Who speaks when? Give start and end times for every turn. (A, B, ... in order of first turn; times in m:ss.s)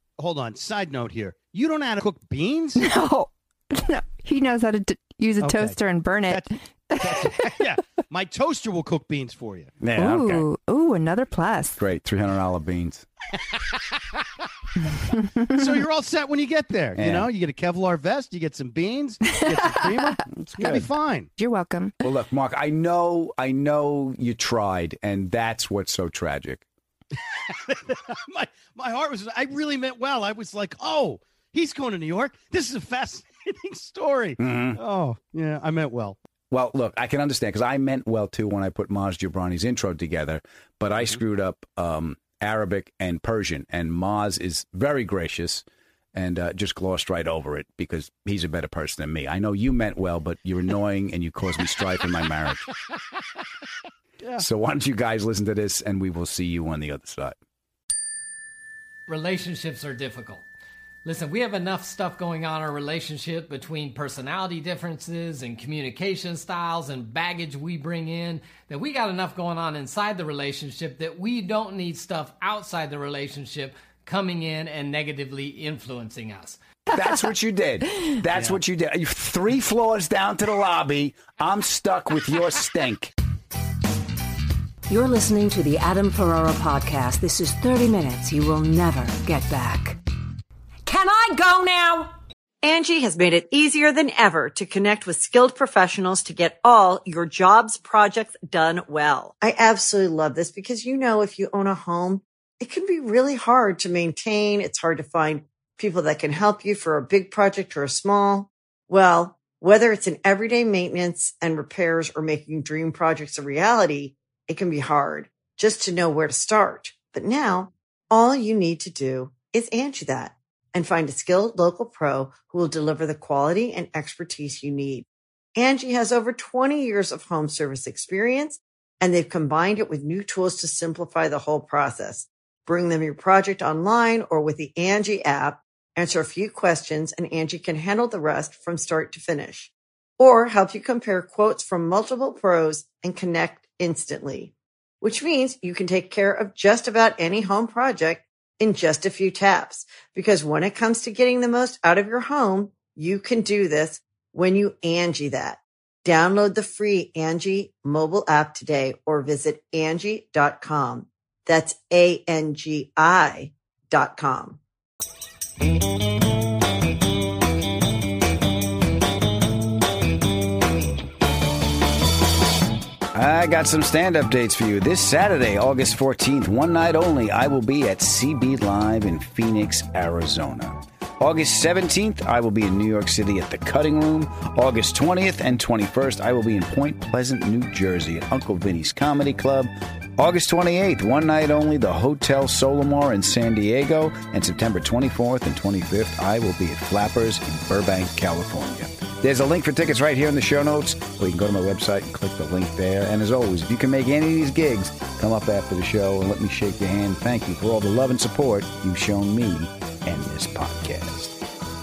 0:00.2-0:02.9 A
0:02.8-0:07.6 B
0:05.4-0:05.8 A
0:06.3-0:09.8 A
0:09.8-0:10.4 C
0:10.0-0:11.8 B
0:11.8-0:13.1 C
0:15.1-0:15.6 B
0:15.5-0:21.3 A
0:17.0-0:17.3 C
0:19.5-0:20.2 B
0:20.4-0:20.9 C
0:21.4-0:22.0 B
0:22.0-0:26.6 C
0:27.2-0:36.2 A
0:34.4-0:34.8 C
0:36.5-0:52.7 C
0:54.4-0:57.4 C
0:59.1-1:00.4 D
1:01.0-1:16.6 D
1:16.9-1:23.1 C
1:18.3-1:18.6 D
1:24.9-1:30.0 E
1:30.9-1:32.1 E
1:32.6-2:44.6 F
2:53.1-3:31.4 C